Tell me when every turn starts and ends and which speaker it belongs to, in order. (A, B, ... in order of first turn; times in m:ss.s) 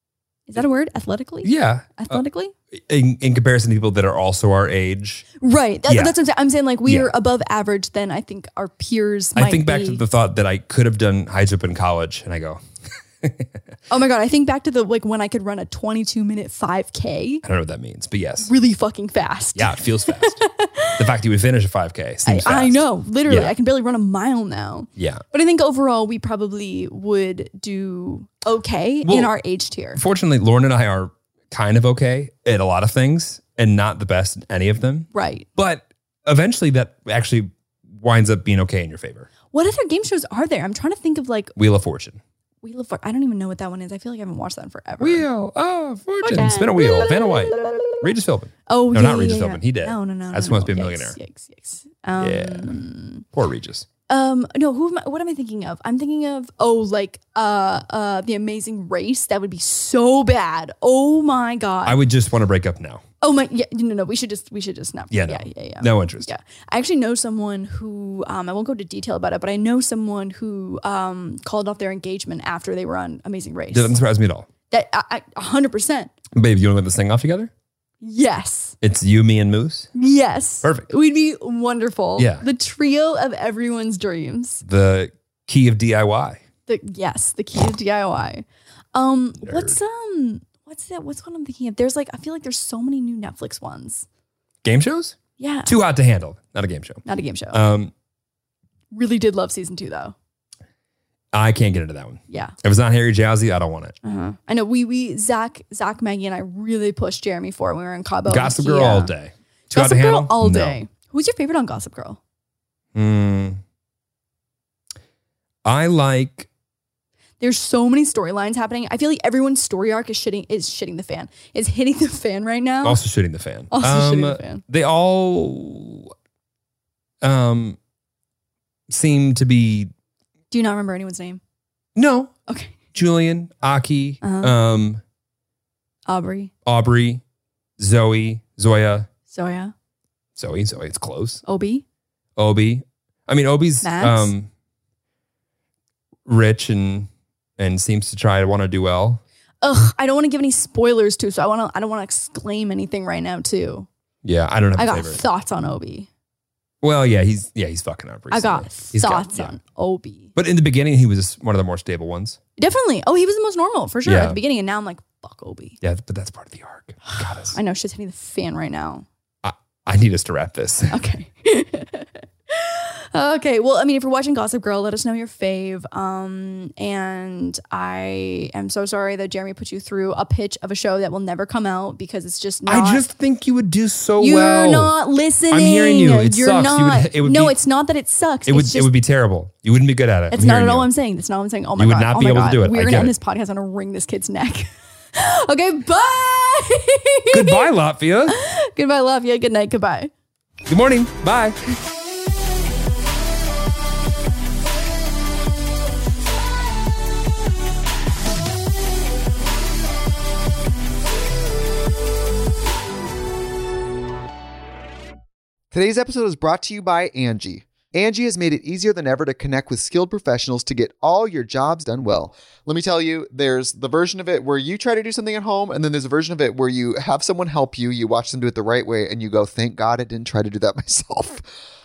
0:00.5-0:02.5 A
0:01.4-0:05.3 B
0:05.4-0:10.0 A
0:05.9-0:06.1 B
0:06.8-0:07.1 B
0:09.4-0:12.6 B
0:13.2-0:13.6 B
0:13.9-0:17.4 A
0:17.4-0:18.5 B
0:18.4-0:21.0 A
0:19.6-0:20.4 B
0:21.0-0:23.5 B
0:22.2-0:30.0 A
0:25.0-0:25.2 B
0:29.0-0:29.3 B
0:30.0-0:39.3 B
0:35.1-0:35.5 A
0:39.5-0:41.5 A
0:41.6-0:42.2 B
0:42.6-0:45.2 A
0:45.0-0:51.2 B
0:46.2-0:48.0 A
0:48.7-0:53.2 A
0:52.2-0:52.8 B
0:53.3-0:53.9 B
0:54.1-1:02.0 A
1:01.9-1:03.0 B
1:03.2-1:13.9 A
1:05.1-1:06.3 B
1:13.7-1:14.5 B
1:14.7-1:16.1 A
1:16.3-1:17.5 B
1:18.0-1:18.8 A
1:18.8-1:19.9 B
1:20.0-1:24.6 A
1:20.6-1:20.9 B
1:22.2-1:22.4 B
1:24.6-1:26.4 B
1:26.7-1:34.1 A
1:29.4-1:29.8 B
1:34.6-1:37.9 B
1:35.4-1:35.8 A
1:37.0-1:37.6 A
1:38.9-1:40.2 A
1:41.3-1:44.0 B
1:42.3-1:42.6 A
1:44.0-1:49.1 A
1:48.3-1:50.8 B
1:49.7-1:52.2 A
1:53.0-1:53.6 B
1:55.6-1:56.5 B
1:57.4-2:03.0 A
2:02.8-2:06.1 B
2:03.7-2:04.6 A
2:07.2-2:07.8 B
2:08.9-2:09.9 B
2:10.5-2:11.4 A
2:12.0-2:12.3 B
2:12.5-2:12.8 A
2:12.9-2:15.0 B
2:14.2-2:14.5 A
2:16.1-2:16.5 A
2:16.6-2:17.2 B
2:17.8-2:19.1 B
2:19.3-2:19.7 A
2:20.4-2:21.4 B
2:21.4-2:21.8 A
2:22.4-2:24.5 B
2:23.8-2:24.3 A
2:26.3-2:29.2 B
2:29.6-2:33.9 A
2:34.2-2:35.2 B
2:34.8-2:36.1 A
2:36.8-2:39.5 B
2:38.3-2:40.3 A
2:40.4-2:42.4 B
2:42.6-2:45.8 A
2:44.0-2:44.4 B
2:45.8-2:47.6 B
2:47.1-2:49.1 A
2:49.4-2:51.0 B
2:50.9-3:03.1 A
3:02.7-3:05.0 B
3:04.2-3:08.9 A
3:05.5-3:07.6 B
3:08.5-3:10.9 B
3:10.3-3:17.7 A
3:11.8-3:13.1 B
3:17.3-3:18.4 B
3:18.3-3:20.1 A
3:20.7-3:21.6 B
3:35.7-3:51.4 C